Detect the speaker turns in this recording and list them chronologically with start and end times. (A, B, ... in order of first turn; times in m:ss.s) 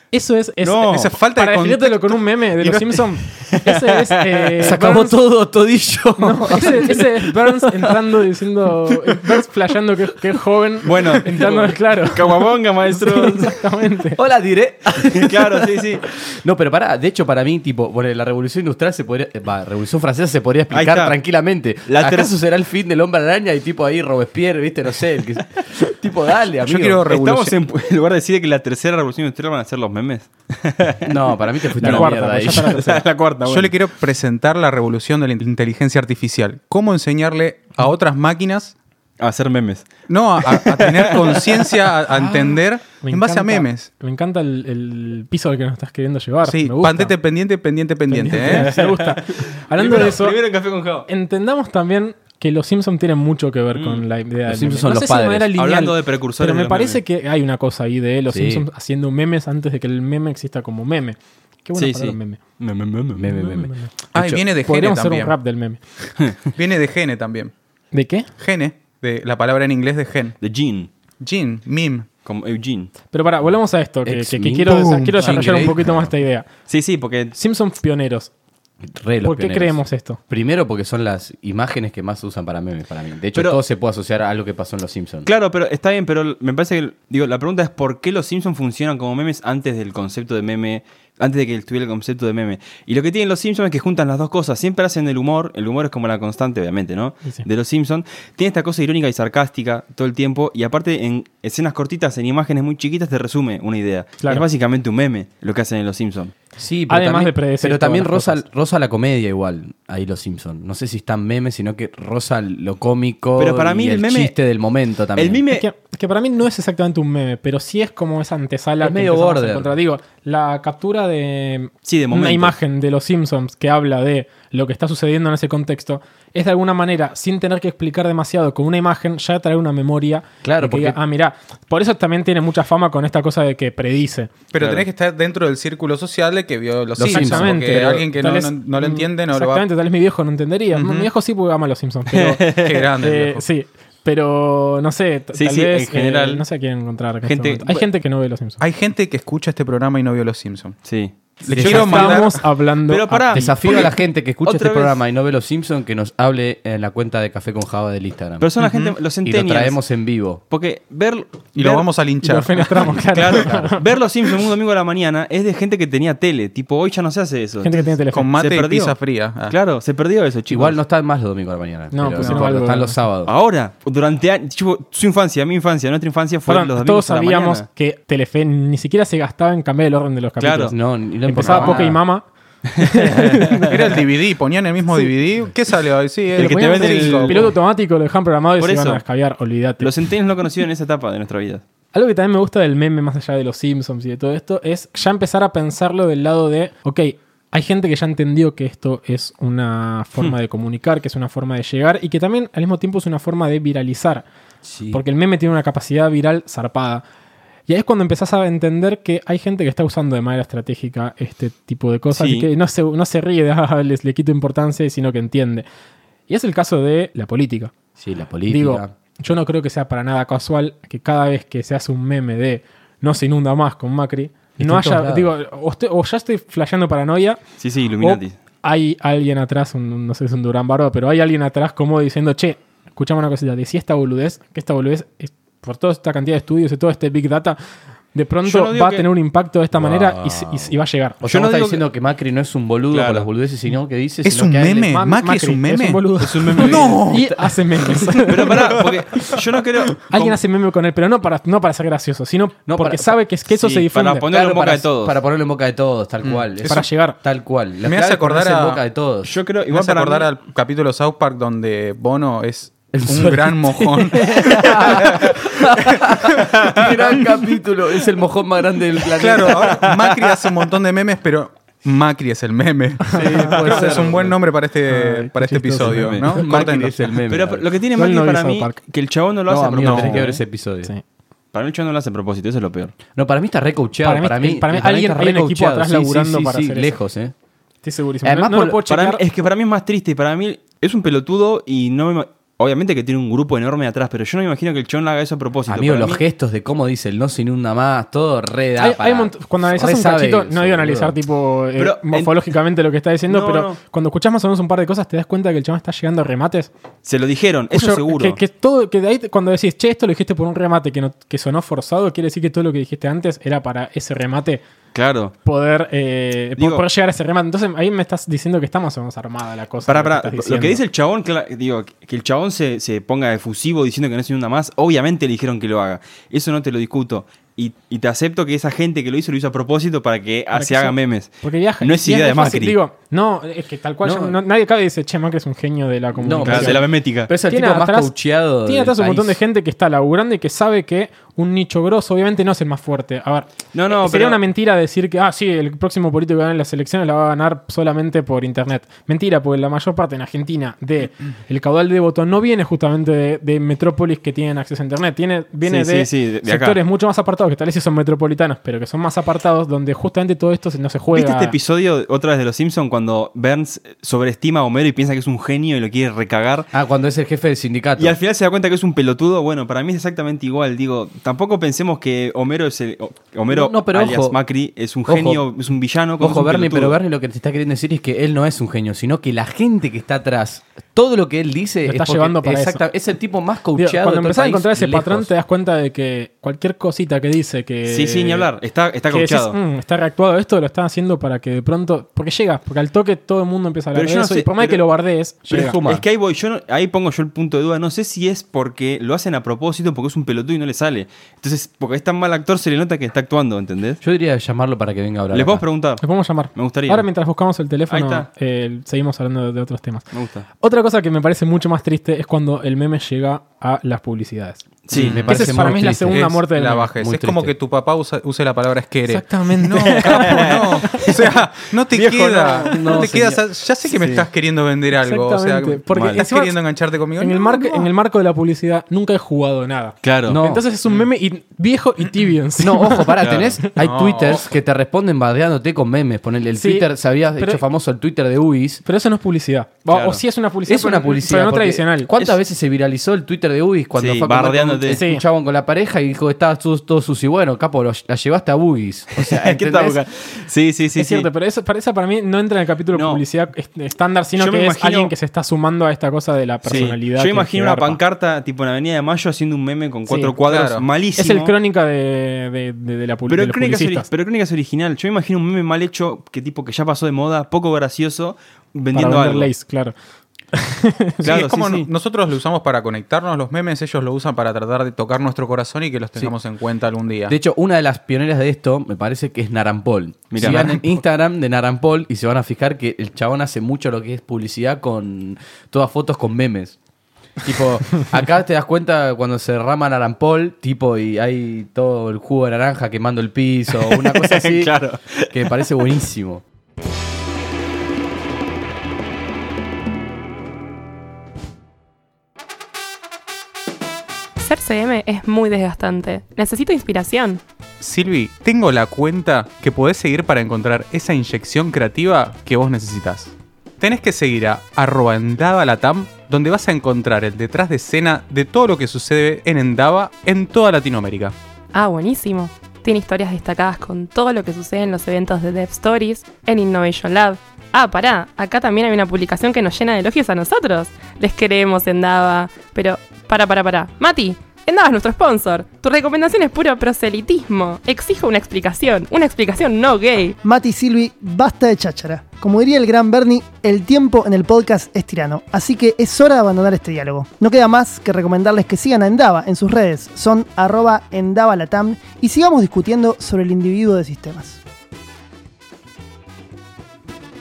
0:00.1-0:05.2 A
0:00.6-0:01.1 B
0:00.9-0:03.0 C
0:03.5-0:04.4 B
0:04.6-0:07.1 D
0:06.2-0:14.2 A
0:10.8-0:13.6 B
0:14.2-0:27.1 D
0:15.1-0:16.0 B
0:20.7-0:21.2 B
0:21.9-0:22.3 B
0:26.7-0:27.6 C
0:27.1-0:31.1 B
0:31.0-0:33.0 D
0:31.8-0:33.8 B
0:31.8-0:33.0 A
0:33.4-0:38.7 C
0:39.2-0:39.9 B
0:40.1-0:43.9 C
0:40.4-0:41.8 B
0:42.1-0:47.1 A
0:46.4-0:48.7 C
0:48.1-0:50.4 A
0:48.4-0:51.1 B
0:51.1-1:02.4 A
0:53.7-0:54.0 B
0:54.5-0:55.5 D
0:55.6-0:57.0 B
0:58.3-0:58.6 D
1:01.8-1:03.3 B
1:03.1-1:04.4 D
1:03.3-1:03.9 A
1:04.1-1:05.3 C
1:04.6-1:05.8 A
1:06.5-1:07.5 C
1:07.9-1:08.3 A
1:08.4-1:10.4 C
1:10.4-1:10.9 B
1:11.2-1:12.1 C
1:12.2-1:12.9 B
1:13.1-1:16.5 A
1:14.0-1:16.1 D
1:14.6-1:15.6 C
1:16.7-1:17.4 B
1:17.4-1:18.3 A
1:18.8-1:25.3 D
1:19.2-1:20.2 A
1:23.4-1:23.6 B
1:25.2-1:46.3 B
1:46.6-1:55.4 D
1:46.9-1:48.4 A
1:53.4-1:54.4 B
1:55.1-1:55.6 B
1:55.5-2:14.3 A
1:58.8-1:59.7 D
2:01.8-2:02.5 B
2:10.4-2:11.0 D
2:14.5-2:19.6 C
2:14.6-2:14.9 B
2:17.0-2:17.7 D
2:17.0-2:22.5 A
2:20.7-2:21.1 C
2:22.1-2:22.9 B
2:22.5-2:23.4 C
2:23.0-2:28.6 A
2:25.3-2:26.4 B
2:27.2-2:27.9 B
2:28.6-2:30.9 C
2:30.8-2:32.2 B
2:31.4-2:32.4 C
2:31.4-2:33.6 A
2:31.5-2:32.3 D
2:32.9-2:35.0 B
2:33.3-2:38.5 D
2:38.4-2:39.8 B
2:38.6-2:38.9 C
2:39.2-2:40.4 D
2:40.5-2:41.9 B
2:41.6-2:43.0 C
2:42.2-2:43.8 A
2:42.9-2:43.7 D
2:43.0-2:50.8 B
2:47.6-2:48.3 A
2:48.1-2:49.6 C
2:50.5-2:53.3 D
2:51.9-2:53.0 A
2:52.2-2:52.4 C
2:53.2-2:57.6 B
2:56.5-3:04.0 A
3:00.4-3:00.7 B
3:00.7-3:02.0 D
3:01.4-3:01.8 B
3:03.0-3:03.6 B
3:03.6-3:07.5 C
3:06.4-3:07.6 B
3:06.4-3:09.9 A
3:08.6-3:09.0 B
3:09.8-3:11.6 B
3:11.9-3:24.3 A
3:24.6-3:25.0 D
3:24.9-3:27.0 A
3:27.7-3:35.6 A
3:32.1-3:32.5 B
3:36.3-3:37.7 A
3:38.0-3:38.9 D
3:38.5-3:47.4 A
3:44.6-3:45.3 D
3:47.6-3:48.4 B
3:48.0-3:57.6 A
3:58.1-4:01.2 A
3:58.4-3:59.1 B
3:59.7-4:05.0 D
4:01.3-4:01.8 B
4:02.9-4:03.3 B
4:04.2-4:07.3 C
4:04.9-4:08.6 A
4:06.2-4:07.0 B
4:06.6-4:08.6 D
4:08.3-4:10.4 B
4:10.1-4:14.3 A
4:12.7-4:13.1 D
4:13.5-4:15.2 B
4:14.3-4:19.3 D
4:16.7-4:17.2 A
4:17.8-4:18.8 C
4:19.2-4:20.3 B
4:19.7-4:25.3 C
4:22.9-4:29.8 D
4:24.1-4:25.0 A
4:29.2-4:37.0 C
4:29.6-4:30.4 B
4:33.1-4:34.4 D
4:33.1-4:33.6 A
4:33.6-4:34.2 B
4:34.9-4:36.3 A
4:35.8-4:37.7 D
4:36.2-4:36.6 B
4:37.3-4:40.4 B
4:38.0-4:38.8 A
4:39.5-4:40.9 D
4:39.8-4:40.2 C
4:41.5-4:42.9 B
4:43.1-4:47.3 D
4:44.0-4:46.9 A
4:47.8-4:49.2 A
4:48.2-4:48.8 D
4:48.9-4:56.2 B
4:55.7-5:01.1 D
4:58.8-5:06.7 A
5:01.8-5:02.4 B
5:03.3-5:03.8 B
5:07.0-5:08.4 B
5:07.7-5:14.6 A
5:14.9-5:15.3 B
5:15.4-5:20.8 A
5:16.6-5:16.8 B
5:19.9-5:32.8 B
5:30.5-5:36.8 A
5:34.0-5:34.4 D
5:36.1-5:39.4 D
5:36.4-5:37.3 B
5:37.4-5:38.1 A
5:38.6-6:01.6 A
5:43.7-5:44.4 B
5:55.6-5:56.8 B
6:01.1-6:06.7 B
6:06.7-6:08.2 D
6:08.0-6:17.0 B
6:13.5-6:14.4 D
6:15.1-6:15.4 D
6:16.2-6:25.3 D
6:21.9-6:22.8 A
6:23.8-6:28.5 A
6:27.8-6:29.6 B
6:29.1-6:35.8 A
6:33.9-6:34.8 B
6:35.5-6:36.0 D
6:35.5-6:44.0 B
6:44.0-6:45.6 D
6:45.3-6:46.0 B
6:46.0-6:50.0 A
6:46.5-6:47.1 B
6:47.9-6:48.3 B
6:50.1-6:50.4 B
6:50.6-6:54.6 A
6:54.9-6:55.2 B
6:54.9-6:57.6 D
6:54.9-7:07.9 C
6:55.3-6:56.9 A
6:59.1-7:00.6 A
7:00.0-7:01.2 B
7:01.9-7:03.1 B
7:02.6-7:03.4 D
7:03.9-7:04.2 B
7:05.0-7:06.6 A
7:05.9-7:06.2 B
7:07.2-7:13.1 A
7:10.0-7:10.4 B
7:10.3-7:10.6 D
7:12.6-7:18.8 D
7:13.2-7:13.6 B
7:13.8-7:14.4 C
7:16.6-7:17.6 A
7:18.8-7:22.1 A
7:19.9-7:20.2 B
7:20.6-7:30.0 D
7:23.9-7:25.0 B
7:24.9-7:25.2 A
7:29.1-7:31.3 B
7:31.0-7:38.0 A
7:32.9-7:33.2 B
7:34.4-7:35.1 B
7:36.6-7:41.5 B
7:40.1-7:40.3 A
7:40.4-7:40.8 C
7:41.2-7:44.1 A
7:43.3-7:49.5 B
7:48.9-7:49.9 A
7:50.5-7:51.2 A
7:51.2-7:51.9 B
7:51.2-7:57.4 C
7:57.3-8:06.8 D
8:00.3-8:00.7 B
8:07.4-8:14.8 D
8:13.7-8:15.4 B
8:15.3-8:16.4 D
8:24.4-8:27.4 E
8:27.8-8:41.4 C
8:41.7-9:00.4 E
9:00.4-9:14.6 F